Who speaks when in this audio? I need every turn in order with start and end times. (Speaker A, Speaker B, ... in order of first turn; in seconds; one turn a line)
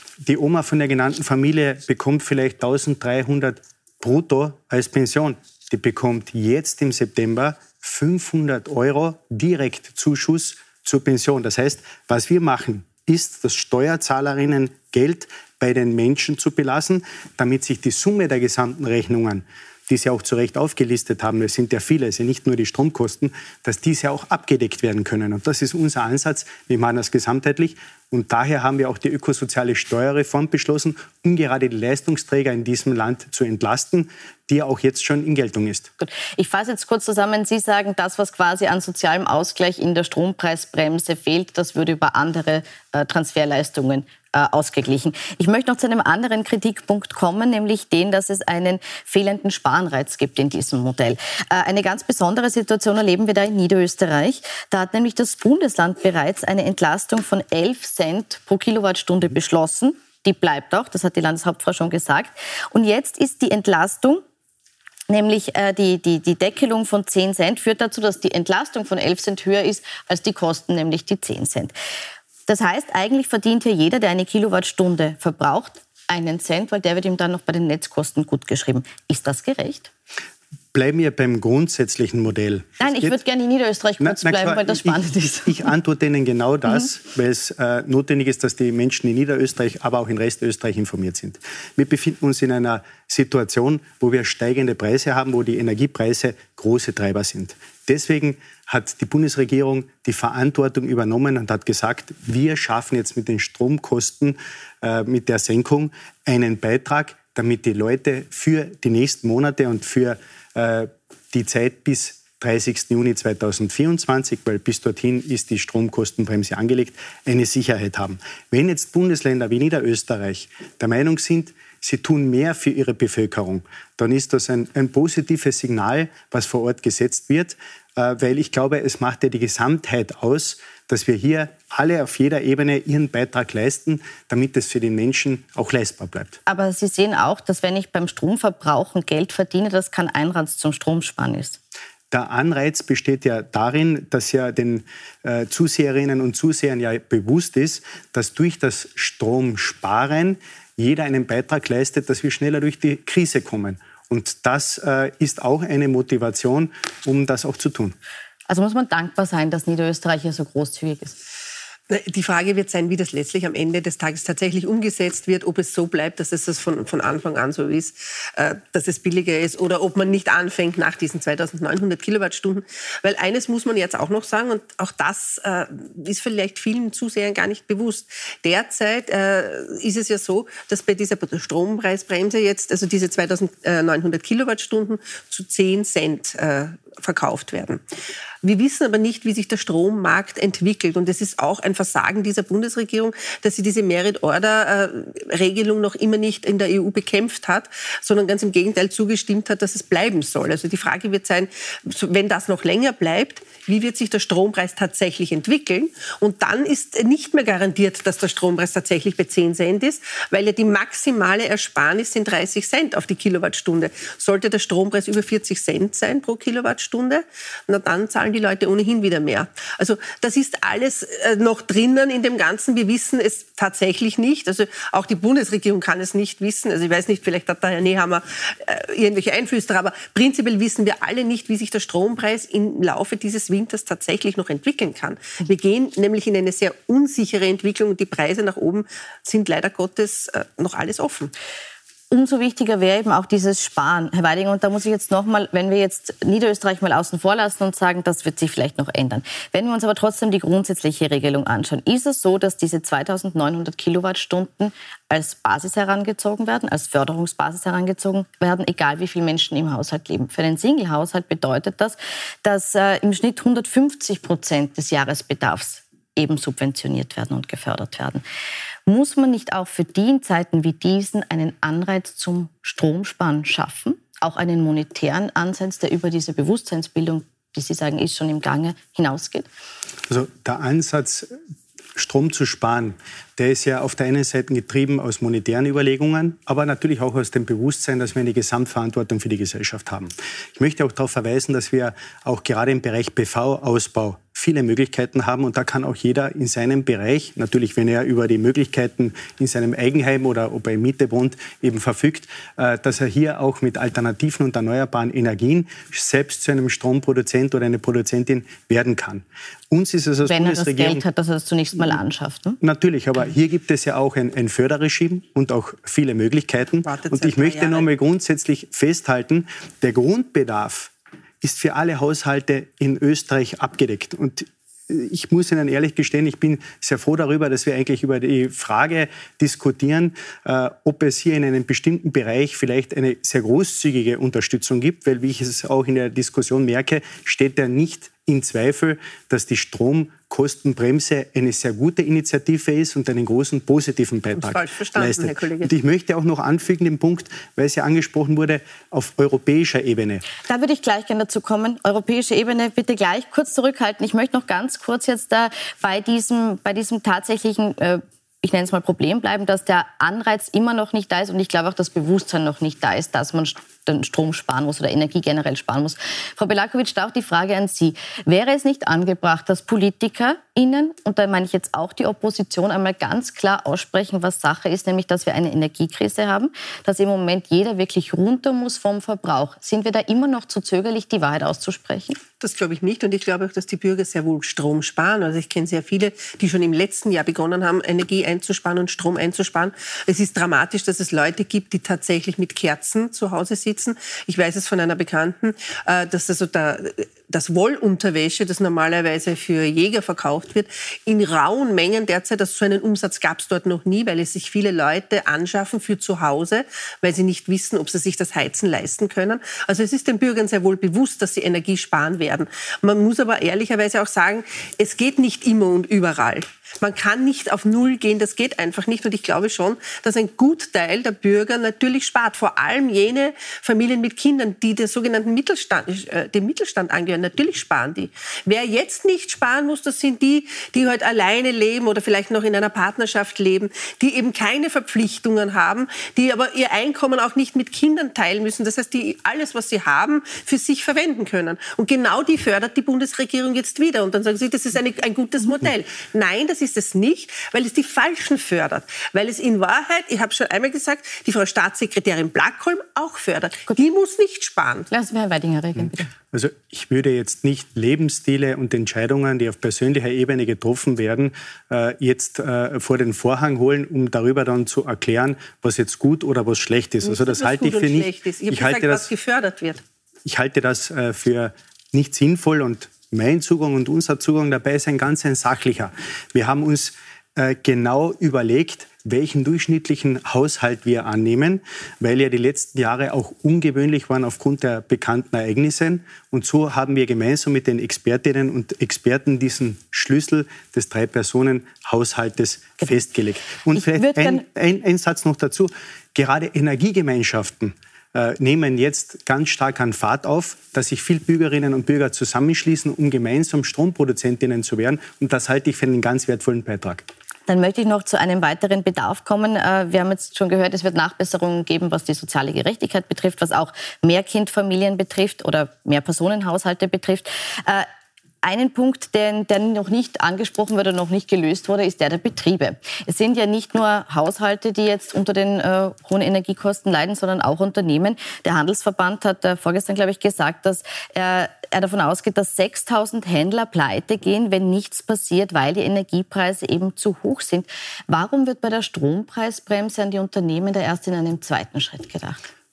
Speaker A: 0.2-35.9
Speaker B: 36.0-64.2
Speaker B: 65.1-71.7
Speaker B: 72.5-79.9
Speaker A: 80.7-83.2
Speaker B: 82.8-85.7
Speaker A: 84.0-136.4
Speaker B: 136.4-141.6
Speaker A: 142.1-157.9
Speaker B: 158.5-161.2
Speaker C: 161.9-187.8
Speaker C: 188.4-241.3
Speaker B: 242.1-268.2
Speaker B: 268.9-279.5
Speaker A: 280.1-281.3
Speaker A: 281.9-311.0
Speaker B: 310.2-312.6
Speaker A: 312.6-350.2
Speaker C: 316.8-317.9
Speaker C: 344.4-345.7
Speaker B: 350.4-382.2
Speaker C: 382.4-454.9
Speaker B: 454.9-456.1
Speaker A: 455.8-469.1
Speaker C: 467.0-469.8
Speaker A: 470.2-507.0
Speaker B: 493.7-494.4
Speaker B: 507.5-517.9
Speaker B: 518.4-542.4